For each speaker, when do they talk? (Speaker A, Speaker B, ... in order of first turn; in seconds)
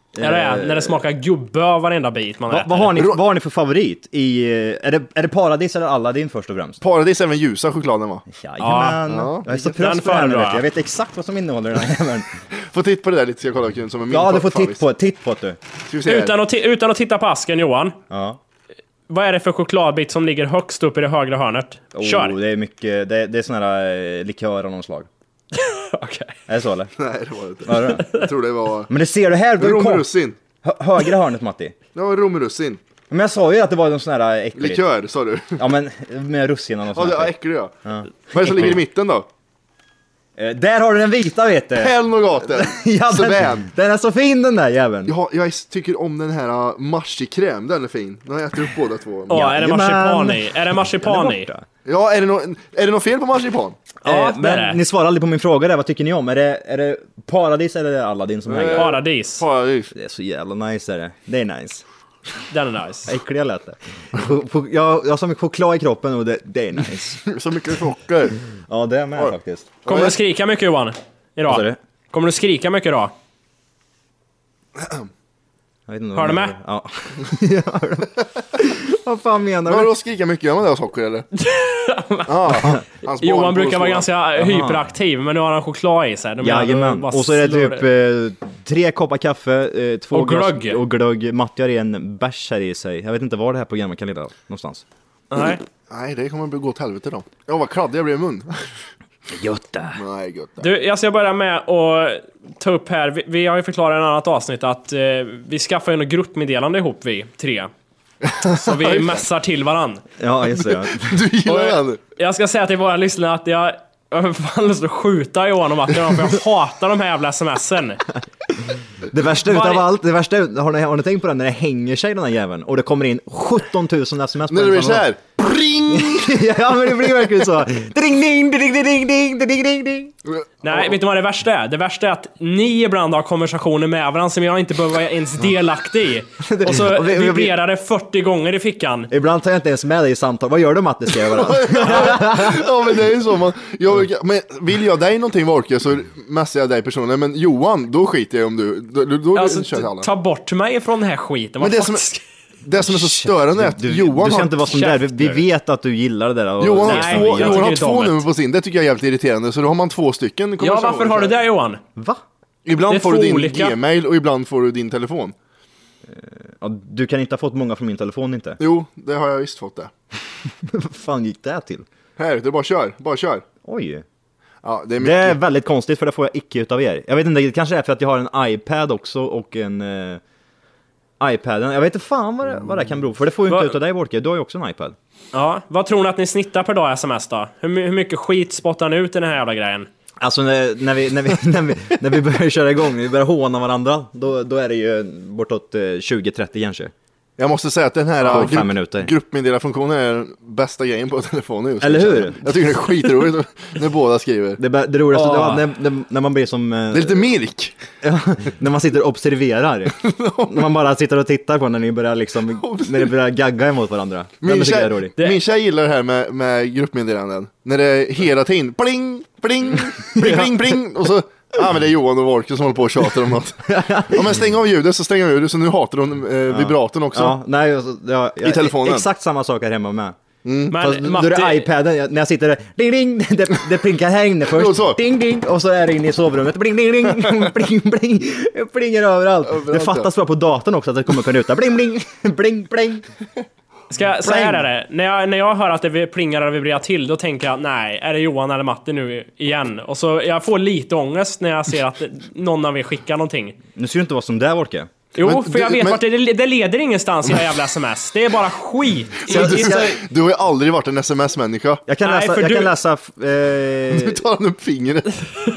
Speaker A: 0.1-1.0, 2.5-6.8, 8.3-12.4, 14.1-15.6, 18.1-18.4, 21.9-25.1, 26.5-26.9, 27.6-28.1, 28.9-30.1, 30.6-31.8, 33.1-34.8, 35.6-38.8, 40.4-45.1, 49.3-51.7, 54.0-59.0, 59.9-61.8, 63.1-67.2, 68.5-69.7, 71.5-71.8, 75.9-79.9, 84.4-84.9, 86.4-94.8, 99.3-100.0, 110.2-111.2, 118.6-125.1, 125.9-130.1, 136.4-137.6, 139.1-142.8, 152.8-157.7, 162.0-162.2, 166.1-168.6, 170.6-171.9, 173.7-174.1, 175.0-180.2, 181.2-185.0, 190.2-196.9, 198.2-199.1, 201.8-202.4, 204.6-207.2, 208.0-215.2, 220.1-220.8, 223.7-224.4, 226.5-230.2, 230.7-243.1, 244.2-244.7, 253.8-254.9, 259.4-259.6, 261.9-264.2
Speaker B: 0.2-3.0, 8.6-10.6, 16.1-18.0, 19.1-22.4, 25.5-26.4, 49.3-51.5, 54.0-54.8, 58.8-59.4, 62.5-63.1, 69.9-73.1, 76.2-76.5, 81.4-87.9, 90.1-90.8, 95.3-95.6, 100.6-107.7, 108.4-110.0, 111.5-118.0, 119.4-119.9, 130.6-139.1, 149.3-152.2, 154.7-155.4, 156.8-158.2, 160.6-161.8, 162.9-163.8, 183.5-183.8, 185.3-189.9, 205.1-205.7, 230.7-231.7, 243.9-253.6, 255.2-260.0, 262.0-262.7
Speaker C: 6.8-8.3, 9.1-9.5, 12.7-14.8, 15.9-16.4, 27.0-28.9, 29.6-30.4, 31.9-32.8, 34.6-35.6, 37.0-37.7, 38.3-39.3, 41.8-43.6, 45.1-49.5, 51.9-53.8, 58.5-59.9, 67.2-68.4, 69.8-70.2, 74.8-75.1, 79.7-81.3, 82.3-84.1, 95.9-98.5, 100.0-100.7, 108.2-109.2, 110.6-112.0, 124.5-127.5, 130.3-131.0, 141.1-150.1, 151.6-152.1, 152.6-154.7, 156.6-161.3, 162.7-165.3, 168.6-169.9, 172.2-173.4, 174.6-175.4, 197.4-204.6, 206.9-207.8, 209.9-210.6, 212.6-213.1, 214.4-227.4, 228.4-229.1, 230.4-230.8, 234.5-235.0, 239.4-240.1, 255.2-256.0, 259.3-261.8, 263.9-265.3